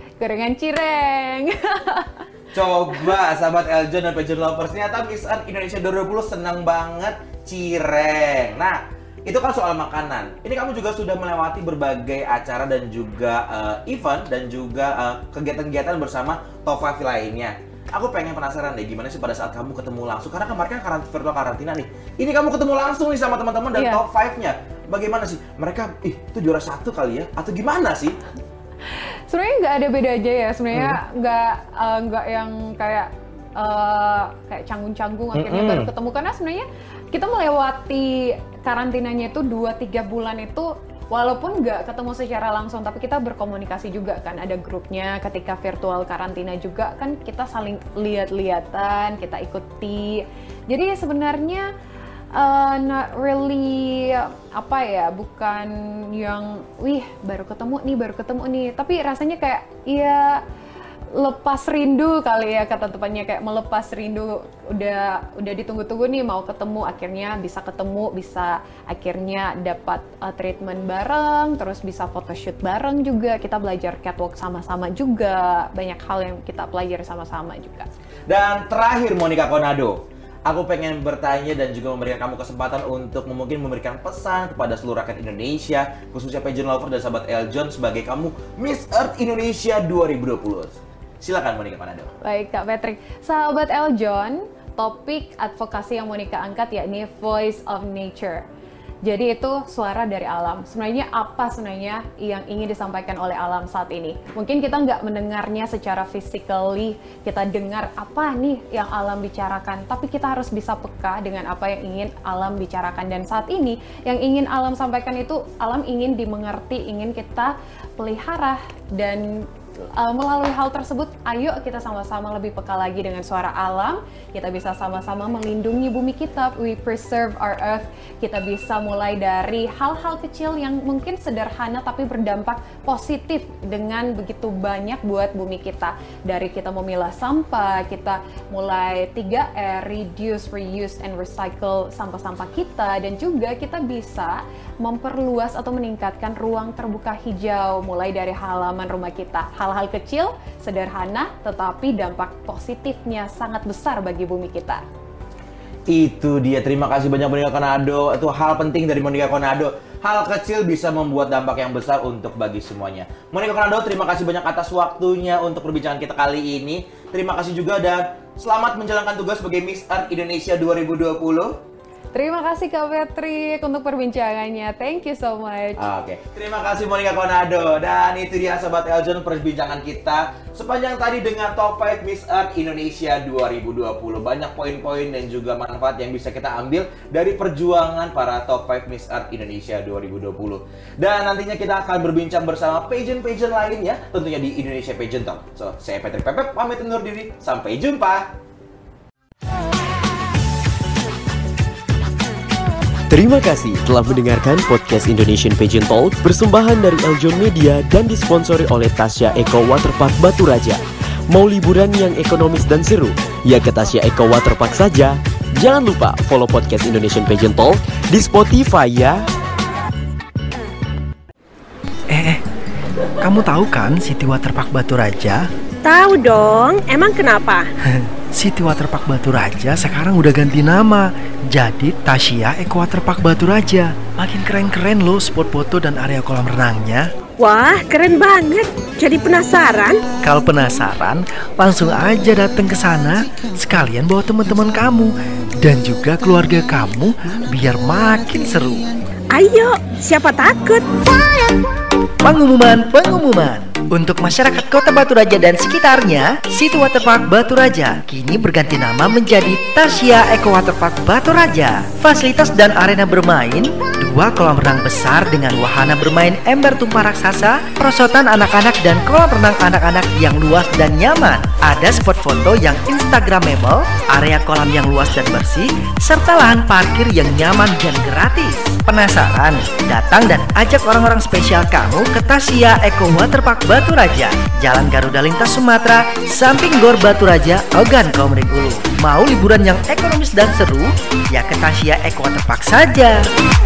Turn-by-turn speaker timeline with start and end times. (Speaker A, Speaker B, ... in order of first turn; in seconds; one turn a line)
Speaker A: 0.2-2.2
Speaker B: 2.5-28.2
Speaker A: 23.7-24.0
Speaker A: 29.3-51.7
Speaker B: 30.7-31.0
Speaker B: 35.3-35.9
Speaker A: 52.3-60.4
Speaker A: 61.1-77.9
Speaker B: 78.3-92.1
Speaker A: 92.2-98.4
Speaker A: 99.0-154.8
Speaker B: 155.9-171.6
Speaker A: 172.1-175.8
Speaker B: 175.8-198.3
Speaker C: 203.1-219.2
Speaker D: 222.1-222.4
Speaker D: 223.2-225.5
Speaker E: 225.8-227.7
Speaker D: 227.9-237.1
Speaker E: 237.4-240.1
Speaker D: 240.2-248.9
Speaker E: 249.3-250.8
Speaker D: 252.2-293.2